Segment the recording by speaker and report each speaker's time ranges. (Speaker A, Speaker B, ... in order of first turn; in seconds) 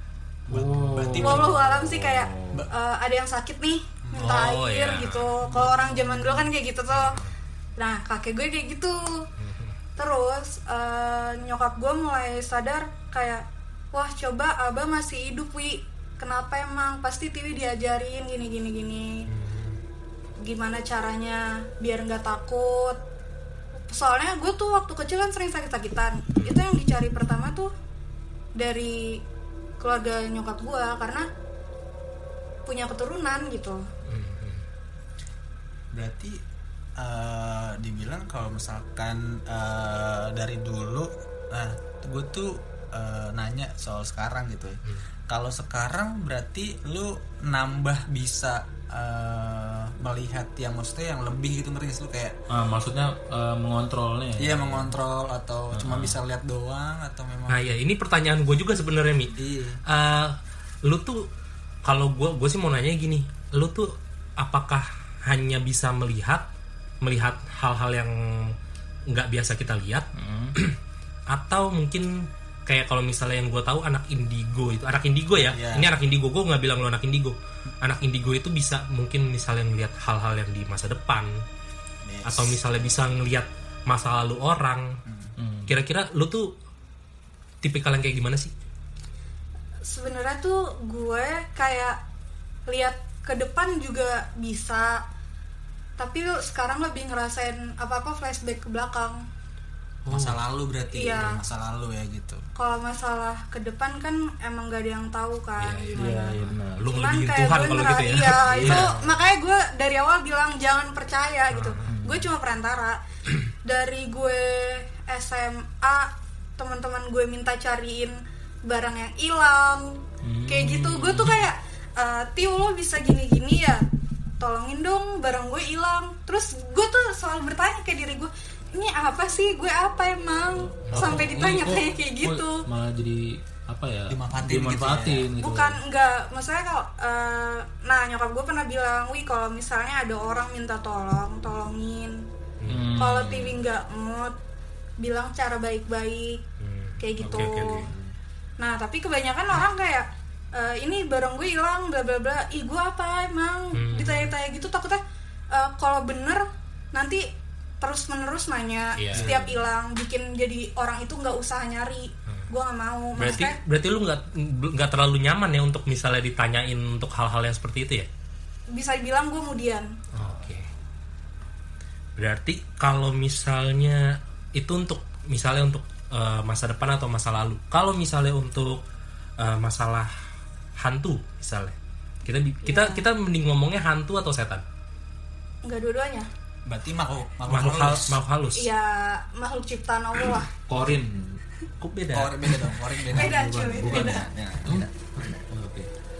Speaker A: 0.5-1.6, 4.0-4.5, 5.5-5.8, 35.9-36.4, 37.0-52.4, 54.4-57.6, 59.3-59.8, 75.3-75.9, 82.0-82.6, 85.0-85.3, 100.1-102.4, 134.1-135.3, 186.7-188.2, 192.1-194.9
Speaker B: 0.5-2.7, 5.4-6.5, 52.5-55.0, 55.7-56.2, 70.1-70.5, 85.4-85.8, 105.9-107.0, 108.4-109.2, 111.8-112.3, 120.2-121.5, 130.6-135.8, 142.7-143.6, 147.2-148.1, 159.1-159.6, 190.6-191.4, 193.1-195.9
Speaker C: 1.2-7.1, 7.8-9.0, 10.0-19.2, 20.4-23.0, 23.9-27.7, 28.6-29.2, 29.8-31.2, 32.6-33.8, 89.8-92.0, 92.7-95.0, 96.0-99.2, 100.9-101.4, 102.5-106.3, 106.9-113.0, 113.6-123.8, 124.4-132.6, 135.4-142.1, 143.0-144.3, 145.0-146.4, 147.0-147.8, 148.6-155.0, 155.5-156.4, 156.9-157.2, 157.8-163.6, 168.7-169.9, 182.6-183.0, 185.6-186.3, 188.6-190.5, 193.1-194.2
Speaker D: 4.2-5.3, 6.9-7.3, 9.4-9.8, 19.3-19.8, 34.0-34.6, 57.5-59.3, 59.9-61.3, 61.9-66.4, 67.0-68.1, 69.1-70.0, 71.3-72.1, 72.7-81.3, 82.2-85.0, 85.7-86.5, 87.6-88.5, 100.1-100.4, 105.6-108.9, 111.5-111.9, 130.9-131.1, 142.6-143.0, 146.6-147.8, 153.7-154.3, 159.0-159.4, 163.2-168.1, 170.1-170.7, 172.2-174.0, 174.5-178.8, 179.4-180.1, 180.8-184.6, 187.5-188.7, 191.8-192.7